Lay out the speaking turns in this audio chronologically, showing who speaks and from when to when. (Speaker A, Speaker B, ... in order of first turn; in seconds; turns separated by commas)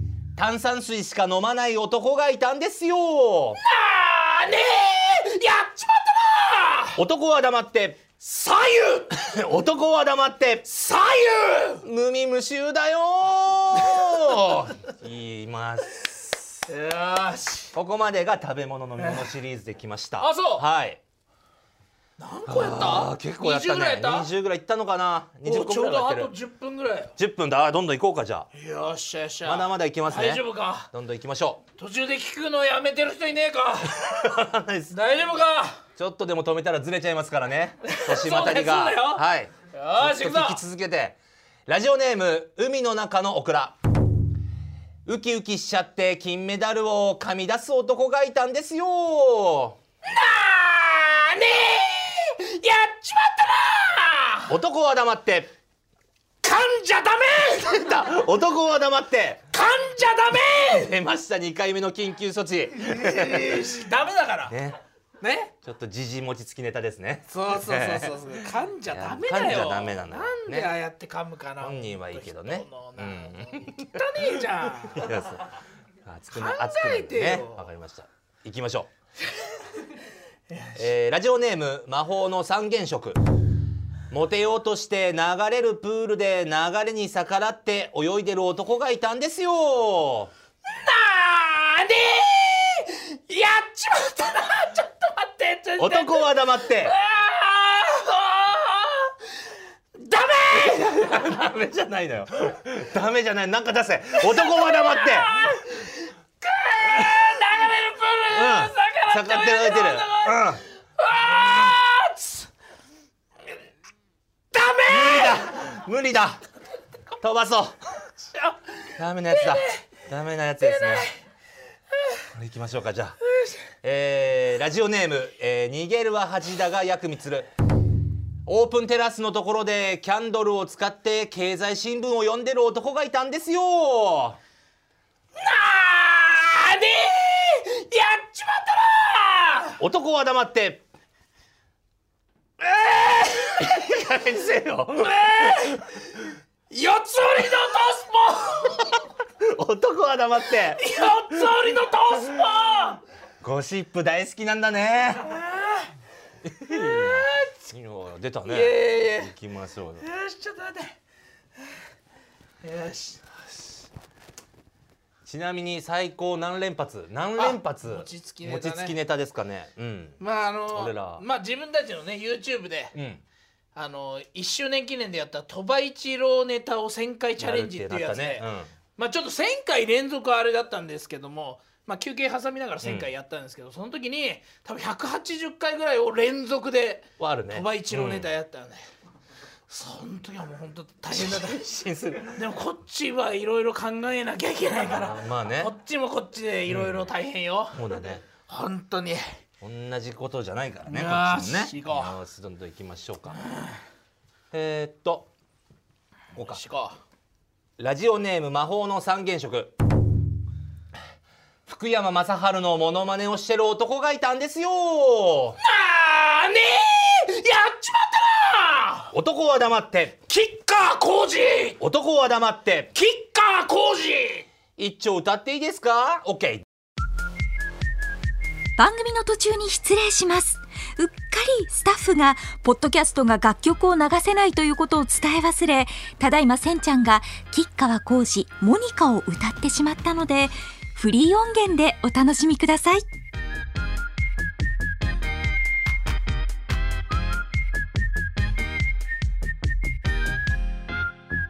Speaker A: 0.3-3.6, Speaker B: 3.6-7.0, Speaker A: 7.0-8.1, Speaker B: 8.2-9.2, Speaker A: 9.1-10.7, Speaker B: 10.7-11.8, Speaker A: 11.8-16.6, Speaker B: 16.7-17.7, Speaker A: 17.7-21.0, Speaker B: 19.0-19.3, Speaker B: 20.2-20.6, Speaker B: 22.2-24.3, Speaker A: 22.5-26.3, Speaker B: 25.4-27.1, Speaker A: 27.2-28.5, Speaker B: 28.5-30.9, Speaker A: 29.4-31.6, Speaker B: 31.8-34.4, Speaker A: 34.0-35.0, Speaker B: 34.9-35.8, Speaker A: 36.0-43.8, Speaker B: 37.9-40.6, Speaker A: 45.0-49.8, Speaker B: 50.0-54.5, Speaker A: 54.5-55.5, Speaker B: 56.4-58.2, Speaker A: 57.7-59.4, Speaker B: 59.5-60.9, Speaker A: 60.6-63.8, Speaker B: 62.8-64.6, Speaker A: 64.5-64.8, Speaker B: 65.2-65.5, Speaker A: 65.6-70.7, Speaker B: 67.3-75.3, Speaker A: 71.6-75.5, Speaker A: 76.0-78.9, Speaker B: 76.3-77.7, Speaker B: 80.5-80.8, Speaker A: 80.8-83.2, Speaker A: 84.1-90.3, Speaker B: 90.7-99.2, Speaker A: 95.8-96.9, Speaker B: 100.0-101.1, Speaker A: 100.5-105.6, Speaker B: 104.2-112.5, Speaker A: 108.3-110.6, Speaker B: 114.5-115.4, Speaker A: 114.9-116.4, Speaker A: 117.2-117.8, Speaker B: 118.2-119.9, Speaker A: 119.0-121.1, Speaker B: 120.6-121.2, Speaker A: 122.3-123.2, Speaker B: 123.3-123.6, Speaker A: 123.8-127.5, Speaker A: 128.5-134.4, Speaker B: 135.4-139.8, Speaker A: 139.8-140.8, Speaker B: 142.6-143.9, Speaker A: 143.6-145.8, Speaker B: 145.0-145.8, Speaker B: 146.7-149.0, Speaker A: 149.4-150.8, Speaker B: 150.7-153.0, Speaker A: 153.4-155.4, Speaker B: 155.3-155.9, Speaker A: 156.4-160.1, Speaker B: 156.7-157.5, Speaker B: 158.5-159.3, Speaker B: 160.0-161.0, Speaker B: 162.6-163.2, Speaker A: 165.3-170.2, Speaker B: 167.4-168.9, Speaker B: 170.2-172.9, Speaker A: 170.7-171.2, Speaker A: 172.9-173.2, Speaker B: 173.8-188.8, Speaker A: 177.4-178.7, Speaker A: 182.8-183.1, Speaker A: 187.2-188.3, Speaker B: 189.7-191.7, Speaker A: 191.1-192.4, Speaker B: 192.3-199.4, Speaker A: 194.8-195.7, Speaker A: 196.7-197.1, Speaker A: 197.7-198.2, Speaker A: 199.6-203.4, Speaker B: 200.9-202.2, Speaker B: 203.4-203.8, Speaker A: 204.5-205.3, Speaker A: 206.3-206.6, Speaker B: 206.4-207.0, Speaker A: 207.8-209.7, Speaker A: 211.7-215.6, Speaker B: 215.6-219.1, Speaker A: 219.1-220.2, Speaker B: 220.3-221.8, Speaker A: 221.8-222.9, Speaker B: 222.9-224.5, Speaker A: 224.8-226.7, Speaker C: 228.8-243.1